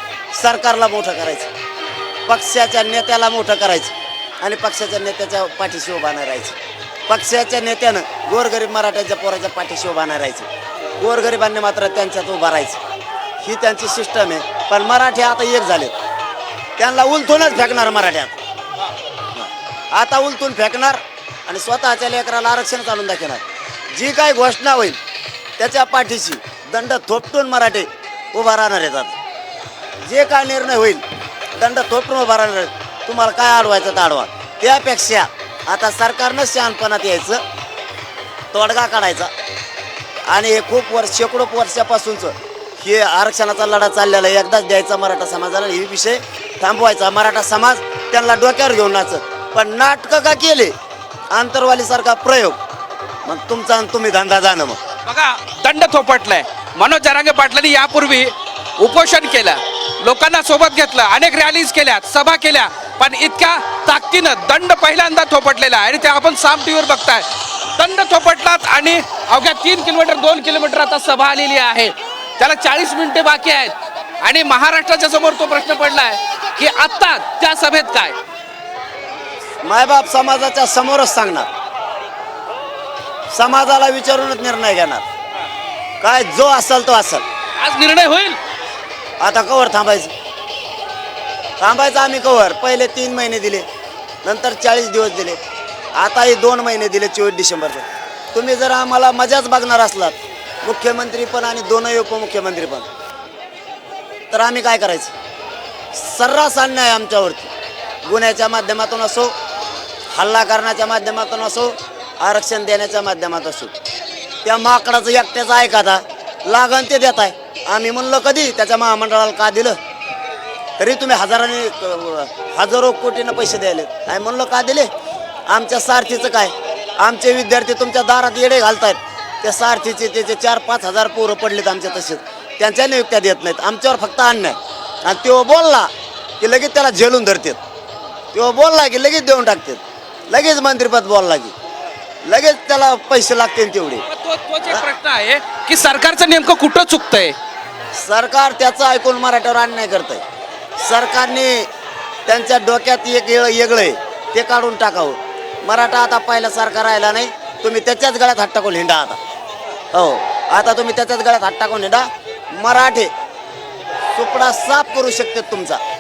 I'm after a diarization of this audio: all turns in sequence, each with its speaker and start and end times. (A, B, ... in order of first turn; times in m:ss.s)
0:00.3-0:01.5 A
0:02.3-0:06.6 A
0:07.1-0:12.8 A
0:13.4-0:16.0 A
0:16.8-0:18.4 A
0:19.4-0:23.4 A
0:23.9-0:25.0 A
0:25.6-0:29.2 A
0:30.1-0:31.0 A
0:31.6-0:37.4 A
0:38.5-0:39.3 A
0:40.3-0:50.7 A
0:51.3-0:52.6 A
0:53.3-0:54.8 A
0:55.0-1:18.2 B
1:19.6-1:21.5 A
1:23.3-1:25.1 A
1:26.0-1:27.2 A
1:27.6-1:28.4 B
1:29.2-1:30.1 A
1:31.6-1:33.7 A
1:34.2-1:35.4 A
1:36.0-1:42.9 A
1:44.3-1:45.1 A
1:45.9-1:47.5 A
1:48.0-1:49.3 A
1:50.1-1:53.7 A
1:54.4-1:59.8 A
2:00.8-2:04.9 A
2:05.5-2:17.6 A
2:18.3-2:21.5 A
2:22.3-2:24.1 A
2:24.1-2:27.4 B
2:27.9-2:30.2 A
2:30.8-2:31.7 A
2:32.3-2:39.2 A
2:39.9-2:43.1 A
2:44.2-2:45.8 A